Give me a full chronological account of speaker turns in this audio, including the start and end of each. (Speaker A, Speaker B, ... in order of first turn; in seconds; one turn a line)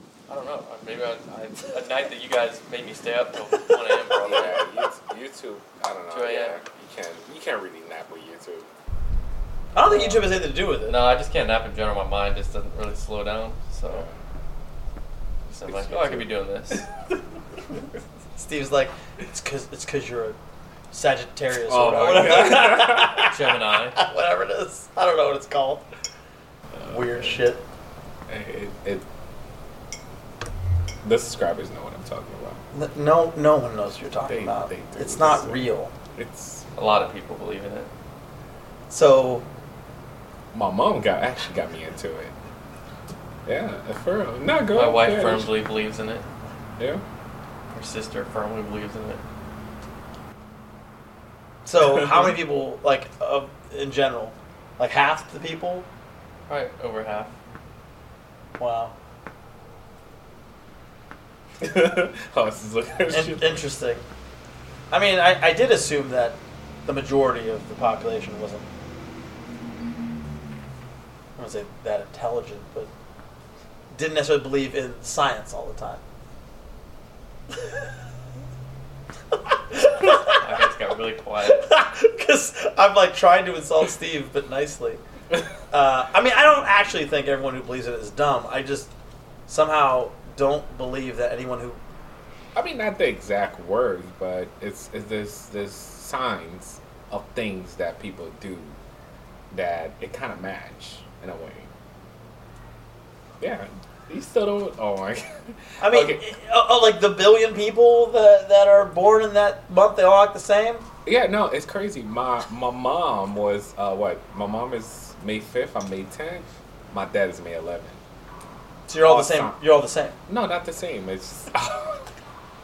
Speaker A: 0.3-4.7
Speaker B: 4.2-8.7
Speaker A: 6.1-6.6
Speaker C: 9.7-11.0
Speaker A: 9.8-14.1
Speaker B: 13.9-14.2
Speaker A: 15.5-16.9
Speaker B: 15.7-16.3
Speaker C: 18.4-20.4
Speaker C: 20.9-23.4
Speaker B: 21.6-23.3
Speaker A: 23.2-24.0
Speaker C: 23.9-25.9
Speaker B: 26.7-27.4
Speaker C: 26.9-27.6
Speaker B: 28.3-29.1
Speaker B: 31.0-32.6
Speaker C: 32.7-35.9
Speaker B: 34.2-36.6
Speaker A: 36.7-37.9
Speaker C: 38.9-39.5
Speaker B: 40.5-42.4
Speaker B: 43.5-45.5
Speaker A: 44.7-46.2
Speaker B: 46.8-47.0
Speaker A: 47.7-49.2
Speaker C: 51.6-55.9
Speaker B: 51.8-52.3
Speaker A: 56.5-57.3
Speaker C: 58.6-58.9
Speaker B: 61.6-63.6
Speaker C: 63.1-64.0
Speaker C: 64.9-68.7
Speaker C: 71.4-72.9
Speaker C: 73.9-76.0
Speaker C: 79.5-80.6
Speaker A: 80.0-81.7
Speaker C: 81.4-85.0
Speaker C: 85.7-88.9
Speaker C: 89.5-91.8
Speaker B: 92.5-98.8
Speaker B: 99.5-101.7
Speaker B: 103.4-106.2
Speaker C: 105.8-110.9
Speaker B: 111.0-118.0
Speaker C: 118.9-120.1
Speaker B: 119.0-119.6
Speaker B: 120.3-122.1